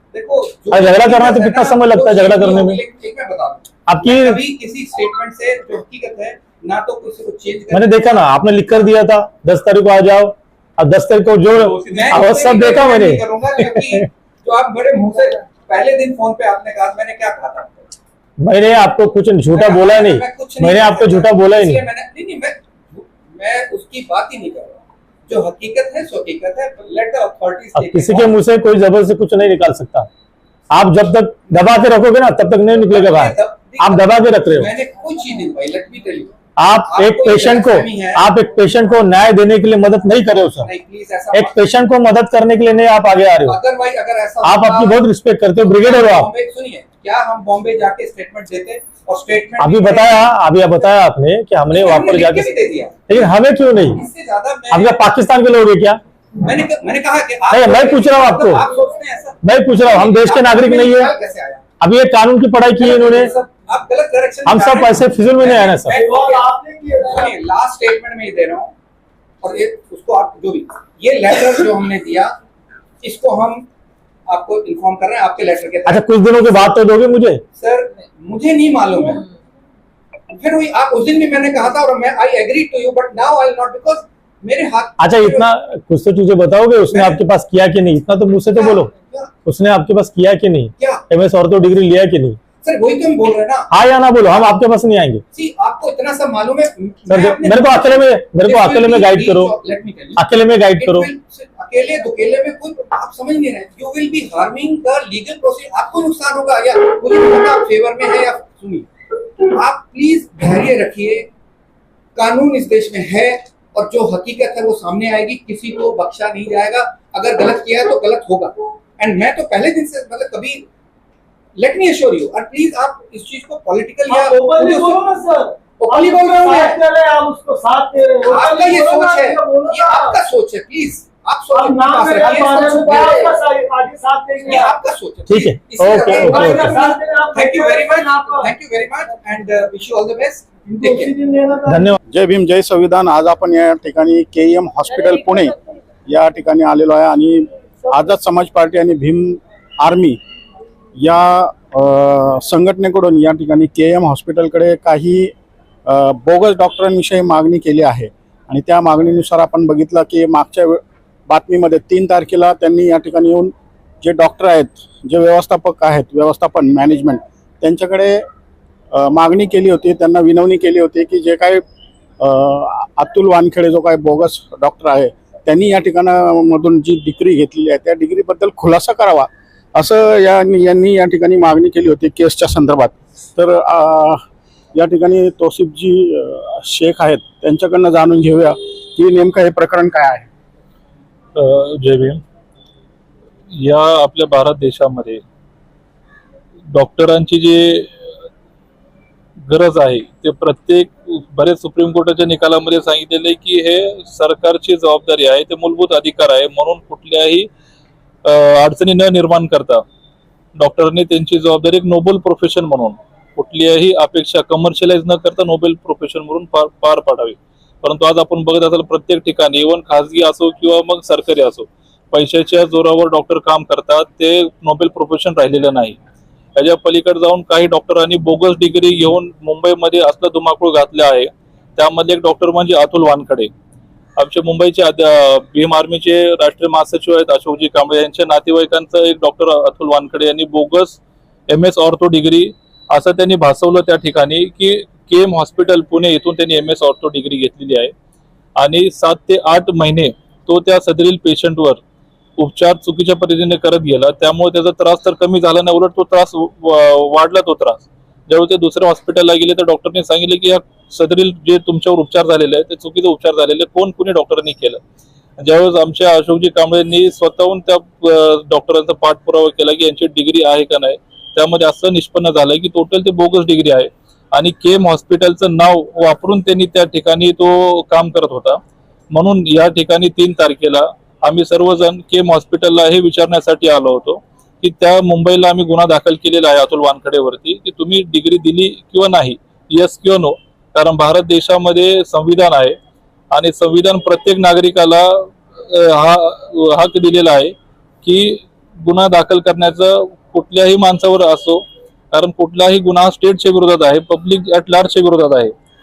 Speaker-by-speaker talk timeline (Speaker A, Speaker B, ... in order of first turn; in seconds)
Speaker A: 0.1-8.2, 11.8-17.9, 19.5-28.4, 32.9-38.2, 40.6-41.7, 43.4-45.0, 45.6-50.3, 51.7-53.3, 53.9-55.0, 56.4-61.6, 62.8-66.5, 67.0-68.7, 69.4-72.3, 73.0-73.6, 74.3-76.7, 77.6-79.2, 80.3-85.5, 86.9-87.2, 88.5-89.3, 90.8-91.0, 92.6-93.7, 95.3-100.2, 100.8-108.9, 109.4-111.3, 112.2-120.6, 121.6-125.0, 125.8-126.8, 128.2-133.4, 134.4-141.1
Speaker B: 0.7-2.8, 3.9-4.4, 7.7-14.0, 18.4-21.8, 27.8-30.1, 30.7-34.7, 36.6-40.7, 41.3-43.6, 44.4-46.3, 49.6-52.5, 53.1-54.0, 54.7-56.0, 57.5-58.6, 59.4-61.1, 61.8-63.3, 64.5-66.0, 75.8-77.4, 85.0-88.9, 89.4-92.4, 93.7-95.2, 97.1-99.5, 100.2-101.1, 135.3-136.8, 141.7-142.0
Speaker C: 65.9-67.3, 124.1-130.2, 131.5-134.8, 136.2-138.5, 140.6-141.9, 144.9-145.5
Speaker D: 142.1-145.5, 146.1-150.2, 151.0-155.3, 155.8-168.2, 168.9-171.6, 172.2-184.2, 184.7-190.3
Speaker E: 191.3-192.2, 193.5-195.2, 196.7-197.9, 199.5-207.5, 208.2-209.8, 210.6-226.0, 226.6-233.5, 234.2-247.9, 248.6-251.8, 252.4-264.8, 265.4-278.6, 279.1-292.8, 293.3-305.5